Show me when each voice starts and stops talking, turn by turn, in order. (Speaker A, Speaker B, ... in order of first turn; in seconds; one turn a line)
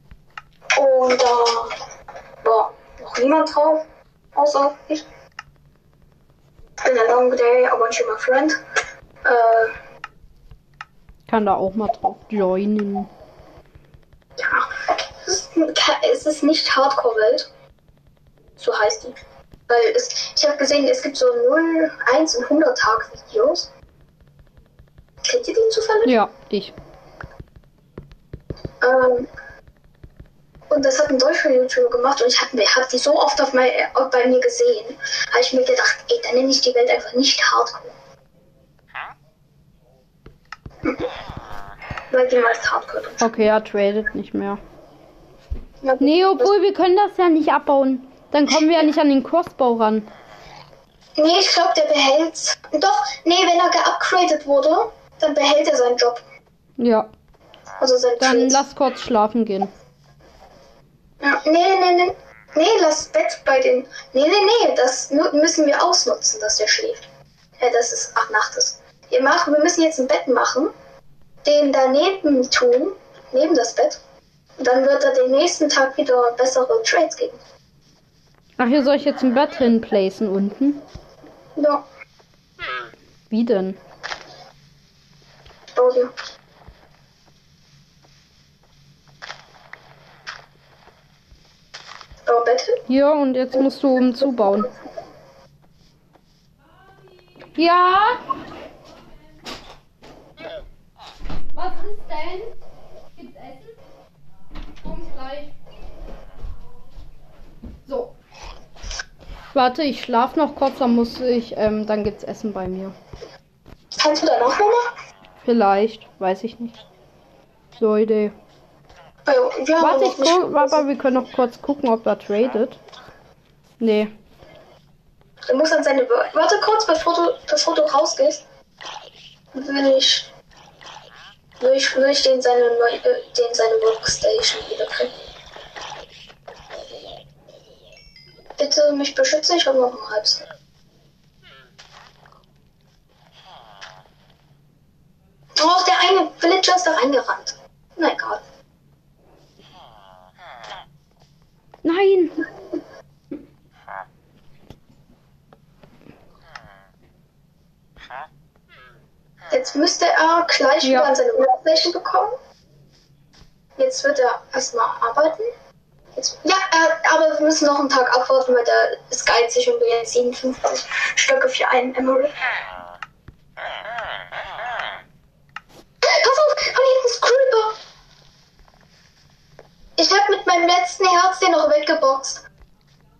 Speaker A: 0.8-1.7
Speaker A: 2.4-5.0
Speaker A: 6.8-8.6
Speaker A: 9.2-9.7
Speaker B: 11.3-13.1
Speaker A: 14.4-17.5
Speaker A: 18.6-19.1
Speaker A: 19.7-23.7
Speaker A: 25.2-26.1
Speaker B: 26.0-26.7
Speaker A: 28.8-29.3
Speaker A: 30.7-37.9
Speaker A: 42.1-43.3
Speaker B: 43.2-44.6
Speaker A: 45.8-46.5
Speaker B: 46.0-50.1
Speaker A: 51.2-56.2
Speaker B: 56.8-57.1
Speaker A: 57.8-58.6
Speaker B: 58.2-59.7
Speaker A: 61.2-67.1
Speaker A: 67.6-70.7
Speaker A: 71.4-74.0
Speaker A: 74.6-77.4
Speaker B: 78.6-80.8
Speaker A: 81.5-81.8
Speaker B: 83.3-83.8
Speaker A: 85.7-86.1
Speaker A: 92.2-92.8
Speaker B: 92.9-94.7
Speaker B: 97.4-98.2
Speaker B: 101.5-102.5
Speaker B: 103.1-103.8
Speaker B: 104.8-105.5
Speaker B: 107.8-108.1
Speaker B: 109.5-112.9
Speaker A: 114.0-114.8
Speaker B: 115.4-116.8
Speaker B: 117.8-118.3
Speaker A: 119.2-120.8
Speaker B: 119.8-122.8
Speaker B: 123.8-124.1
Speaker A: 125.5-128.4
Speaker A: 129.5-130.3
Speaker A: 131.6-135.1
Speaker A: 138.6-140.4
Speaker A: 145.6-148.4
Speaker B: 151.8-152.4
Speaker A: 159.5-162.3
Speaker B: 160.8-161.1
Speaker A: 163.8-165.5
Speaker A: 166.2-172.3
Speaker A: 176.0-177.8
Speaker A: 180.0-182.4